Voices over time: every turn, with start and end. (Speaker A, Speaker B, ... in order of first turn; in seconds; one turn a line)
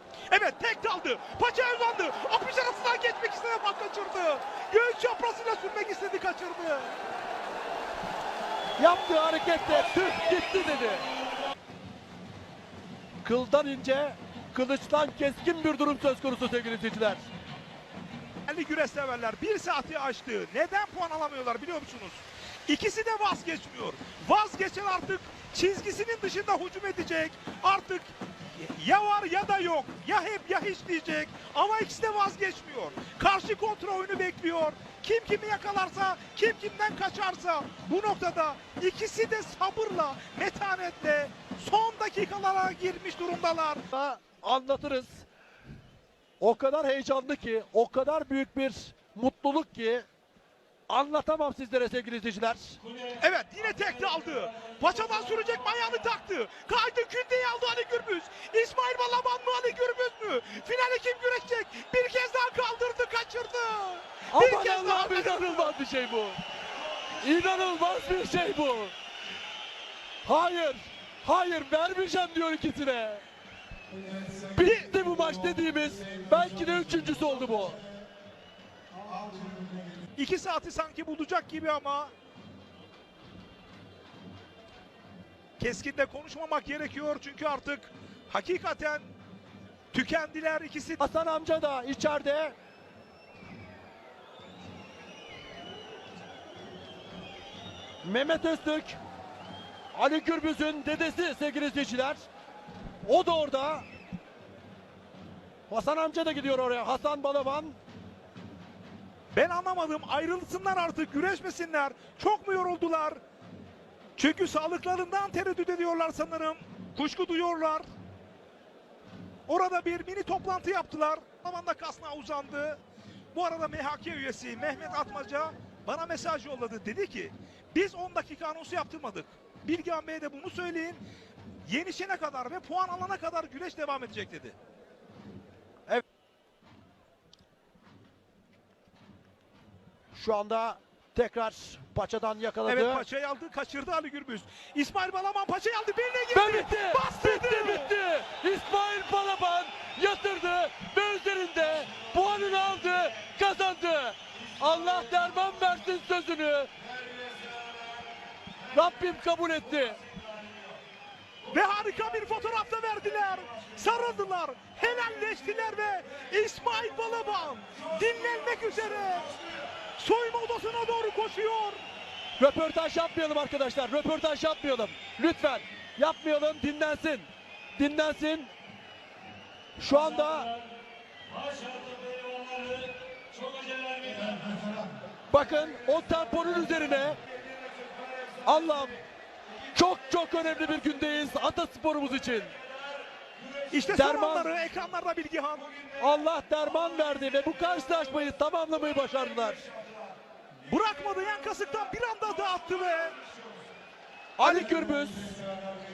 Speaker A: 0.3-6.9
Speaker B: 8.8-11.1
Speaker B: 13.2-17.2
Speaker A: 18.5-43.8
Speaker B: 43.9-45.3
Speaker B: 46.4-50.0
Speaker B: 50.9-52.8
Speaker A: 53.2-65.7
Speaker B: 64.3-66.4
Speaker B: 67.2-68.9
Speaker B: 70.2-73.2
Speaker B: 74.5-77.8
Speaker A: 74.6-74.9
Speaker A: 80.2-82.1
Speaker A: 85.6-89.1
Speaker A: 89.9-91.0
Speaker B: 91.0-92.5
Speaker B: 98.0-99.0
Speaker B: 99.9-102.2
Speaker B: 103.0-103.8
Speaker B: 105.7-107.8
Speaker A: 109.3-113.2
Speaker A: 114.2-117.9
Speaker A: 119.5-122.8
Speaker A: 123.3-131.0
Speaker A: 131.7-134.5
Speaker B: 140.1-143.0
Speaker A: 142.7-147.9
Speaker B: 146.3-156.7
Speaker B: 158.7-160.0
Speaker A: 161.5-169.3
Speaker A: 170.0-171.8
Speaker B: 172.4-178.5
Speaker B: 179.8-180.5
Speaker B: 185.3-187.2
Speaker B: 188.4-189.0
Speaker B: 189.7-192.5
Speaker A: 193.7-195.7
Speaker B: 193.9-194.5
Speaker B: 196.0-199.6
Speaker A: 200.7-203.1
Speaker B: 204.4-205.4